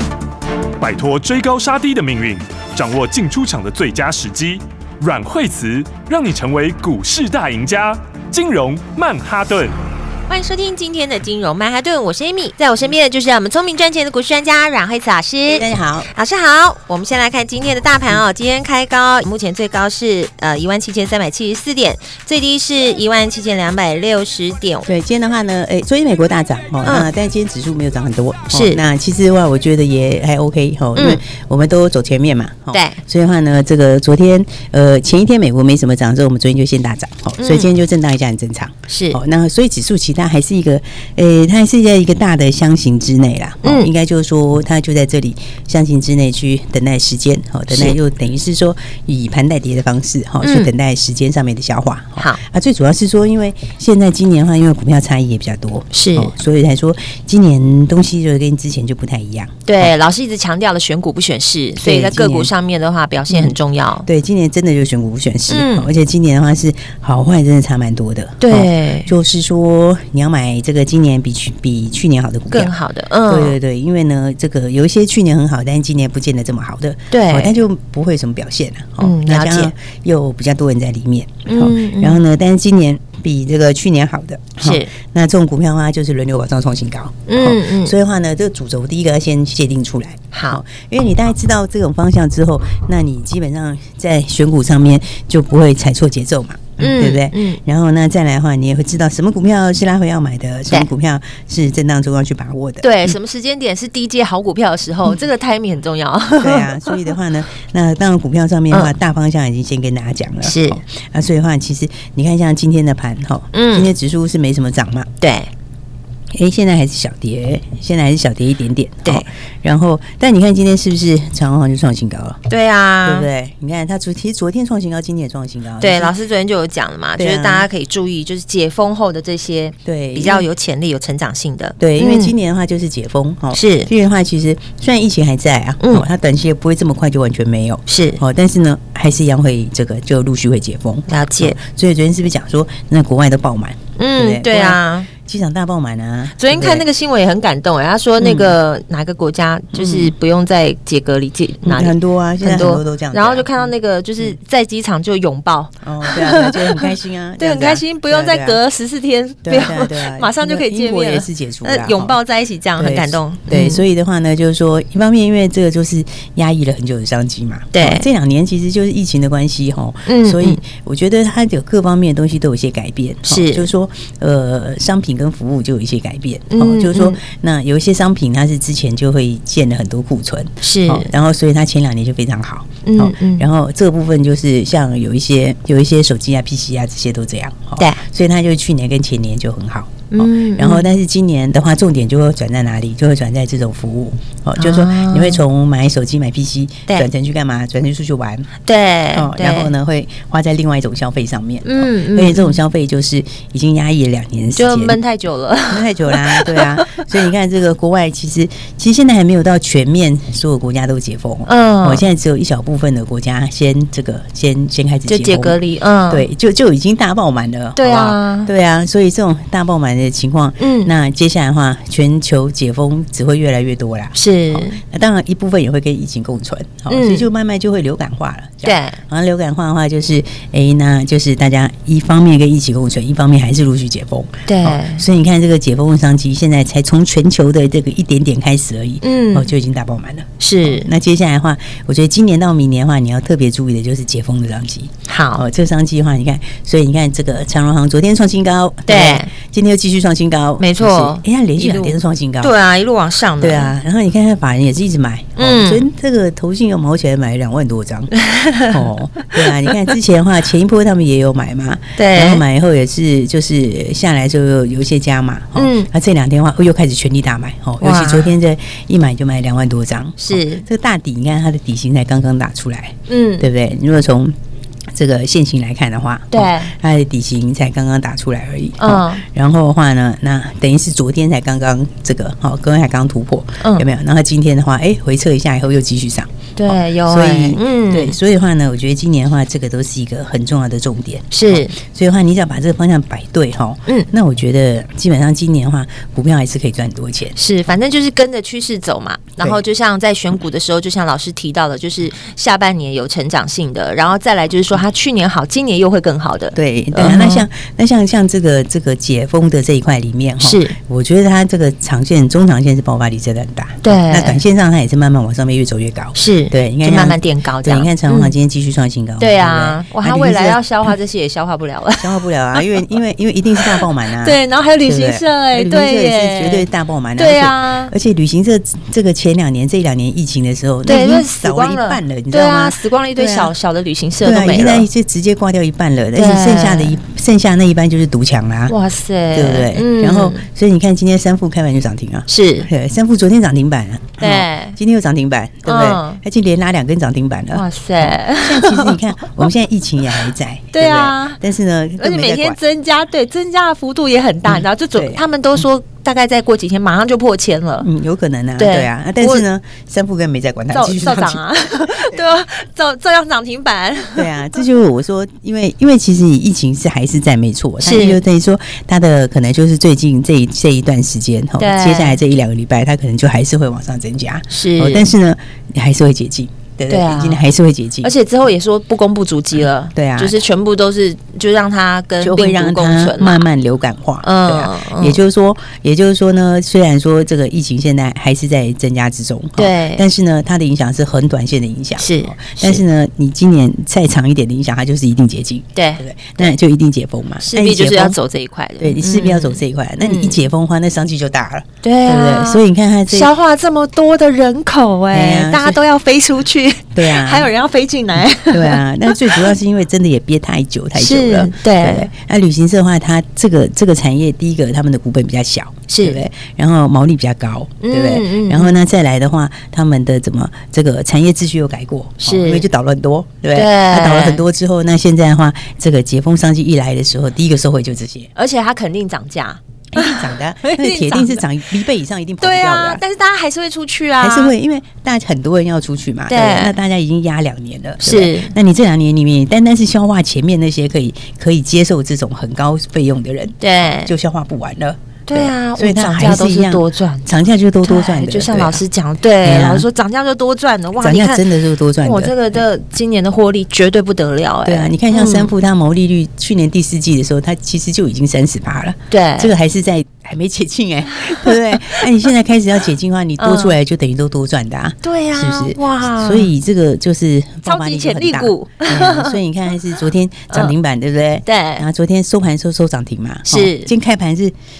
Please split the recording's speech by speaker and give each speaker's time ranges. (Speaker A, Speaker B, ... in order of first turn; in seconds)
Speaker A: 0.8-9.8
Speaker B: 10.3-24.9, 28.5-28.8, 30.9-31.2, 32.7-33.0, 37.4-37.7, 38.9-39.2, 43.6-43.9, 47.7-48.0, 50.4-50.7, 55.9-56.3, 59.6-64.1, 65.5-65.9, 68.4-69.1, 72.5-73.6, 77.1-77.6, 79.0-79.7, 81.5-82.2, 84.6-84.9, 87.3-87.9, 90.3-90.6, 96.8-97.6, 102.8-107.1, 110.4-110.8, 113.5-113.9, 115.2-115.5, 119.0-119.3, 122.5-123.3, 125.8-132.3, 133.5-133.9, 135.8-136.1, 137.9-138.2, 141.1-141.6, 144.0-145.1, 146.4-163.8, 167.7-168.1, 170.1-170.6, 173.2-173.7, 176.5-177.2, 180.6-181.1, 182.8-183.4, 190.1-190.9, 194.6-195.4, 198.6-199.7, 201.6-202.6, 204.6-207.1, 211.4-212.0, 215.1-216.2, 217.8-218.5, 220.6-220.9, 224.1-224.8, 226.9-227.3, 228.6-229.0, 234.5-235.0, 239.0-239.5, 240.4-240.9, 245.1-245.4, 248.8-249.3, 250.6-253.7, 255.4-255.8, 258.1-259.9, 262.0-262.4, 265.6-265.9, 267.8-268.3, 270.2-270.6, 273.1-273.5, 276.3-276.7, 278.8-279.2, 283.6-283.9, 286.6-288.1, 291.3-291.7, 297.4-307.4, 310.4-310.8, 313.8-314.4, 316.1-318.3, 319.2-322.6, 323.6-327.9, 330.9-334.9, 336.1-337.0, 338.7-340.4, 342.3-342.7, 344.2-344.8, 345.6-346.2, 347.5-349.4, 350.7-351.4, 352.0-357.9, 358.6-359.4, 360.7-364.4, 367.8-368.2, 371.6-372.2, 374.5-375.1, 376.9-377.4, 378.0-383.4, 384.2-385.2, 389.6-390.0, 392.0-392.8, 395.8-396.5, 397.4-400.4, 401.8-409.5, 410.9-412.1, 415.9-416.2, 417.8-418.8, 422.2-422.7, 423.5-424.4, 428.4-431.4, 432.4-434.5, 436.3-436.7, 438.0-438.5, 443.6-444.1, 445.3-447.3, 447.8-451.4, 452.0-455.5, 459.1-459.5, 461.3-462.0, 463.4-463.7, 465.0-466.5, 467.6-469.4, 470.5-470.7, 471.4-471.9, 473.5-473.9
Speaker C: 15.5-16.1, 24.9-59.9, 61.8-62.5, 63.3-103.1, 106.4-115.1, 116.3-122.4, 123.0-126.1, 127.2-127.7, 129.8-130.5, 131.8-146.9, 148.2-148.6, 149.7-150.1, 151.6-153.5, 155.8-158.6, 159.4-162.2, 162.8-198.5, 199.1-205.0, 205.7-252.5, 253.4-258.1, 258.7-274.3, 274.9-297.4, 306.5-320.9, 322.0-333.5, 334.2-338.8, 339.3-352.6, 354.5-355.2, 357.8-362.2, 364.1-378.1, 379.9-380.4, 382.2-398.2, 398.8-403.3, 405.1-405.8, 406.9-407.5, 408.4-428.3, 429.9-433.0, 434.2-448.8, 449.4-449.9, 451.0-452.3, 454.6-474.5